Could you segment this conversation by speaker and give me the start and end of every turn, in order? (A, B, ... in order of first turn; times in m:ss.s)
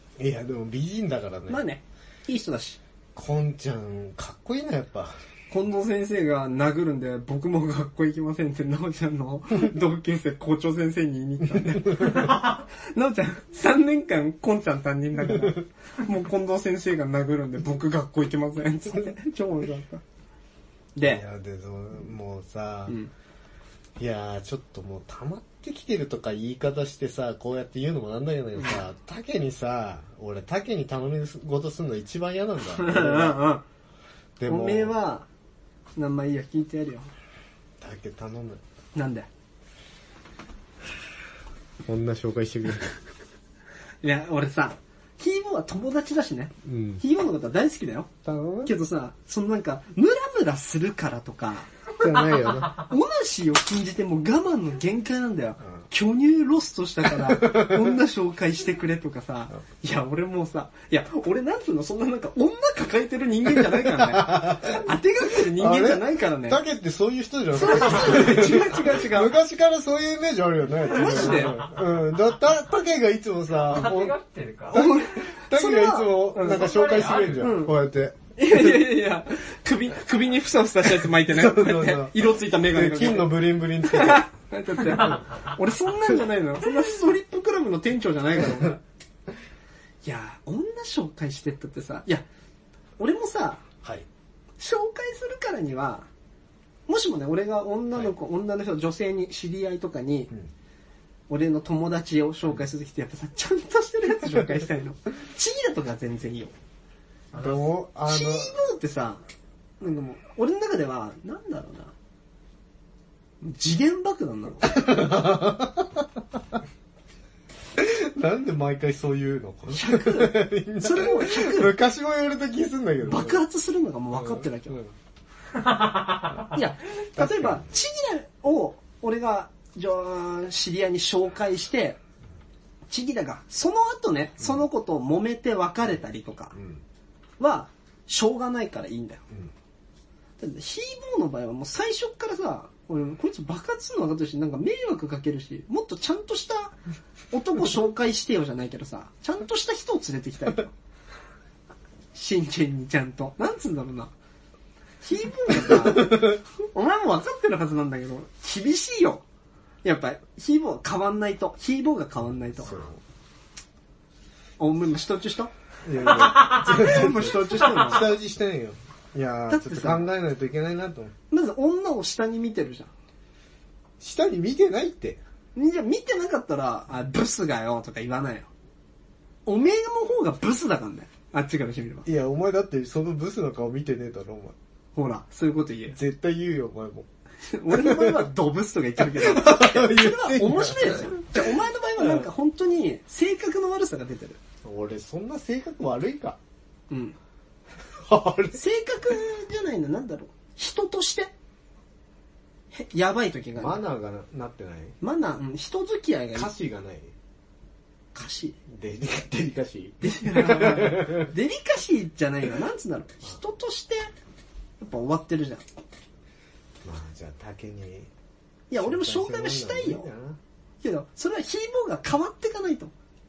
0:00.2-0:01.6 A
0:01.5-0:02.8 B
0:03.2-0:05.2 A
0:05.5-0:20.0 B
0:12.0-0:12.3 A
0:21.0-0:21.2 B
0:21.0-0:23.0 A
0:24.0-0:33.5 A
0:32.6-0:33.6 B
0:34.4-0:35.0 A
0:34.5-0:35.3 B
0:36.0-0:37.1 B
0:37.8-0:38.6 A
0:39.0-0:39.3 B
0:41.9-0:43.0 A
0:44.0-1:06.6 B
0:46.6-0:47.0 A
0:48.2-0:48.7 A
0:52.0-0:52.8 A
0:57.2-0:57.9 A
1:03.7-1:14.2 A
1:07.5-1:09.4 B
1:10.8-1:11.7 B
1:13.7-1:14.8 C
1:14.7-1:18.9 A
1:14.7-1:17.8 B
1:16.4-1:17.5 C
1:18.4-1:28.8 B
1:21.1-1:24.3 A
1:24.9-1:25.2 A
1:30.0-1:32.2 B
1:33.0-1:33.7 B
1:34.6-1:36.1 B
1:36.9-1:40.3 B
1:41.3-1:46.5 B
1:47.3-1:48.6 A
1:48.1-1:49.2 B
1:49.8-1:51.9 B
1:53.4-1:54.8 B
1:54.6-1:56.6 A
1:57.8-2:03.4 A
1:59.7-2:01.8 B
2:03.0-2:04.8 B
2:04.1-2:04.9 A
2:06.1-2:06.4 C
2:06.4-2:12.0 B
2:07.2-2:07.6 A
2:12.9-2:16.6 B
2:16.6-2:16.8 A
2:17.4-2:19.2 B
2:20.4-2:26.8 B
2:27.3-2:30.7 B
2:32.1-2:34.1 B
2:35.0-2:39.2 B
2:35.7-2:36.3 A
2:39.8-2:42.9 B
2:42.6-2:43.0 A
2:44.6-2:45.5 B
2:45.8-2:51.1 A
2:46.2-2:48.1 B
2:49.5-2:50.1 B
2:51.3-2:52.9 B
2:54.0-2:55.2 A
2:55.6-2:58.5 B
2:59.5-3:02.1 B
3:02.0-3:04.6 A
3:05.0-3:06.0 B
3:05.9-3:07.1 A
3:07.5-3:14.4 B
3:07.7-3:08.3 A
3:09.0-3:12.3 A
3:14.6-3:16.4 A
3:16.9-3:17.2 B
3:18.0-3:18.6 A
3:18.5-3:21.3 B
3:22.7-3:23.8 B
3:23.6-3:25.0 A
3:25.0-3:26.5 B
3:26.4-3:27.1 A
3:28.2-3:28.6 B
3:28.7-3:31.3 A
3:30.0-3:34.1 B
3:34.8-3:35.6 B
3:36.8-3:38.1 A
3:38.7-3:40.1 B
3:38.8-3:40.4 A
3:40.8-3:42.9 B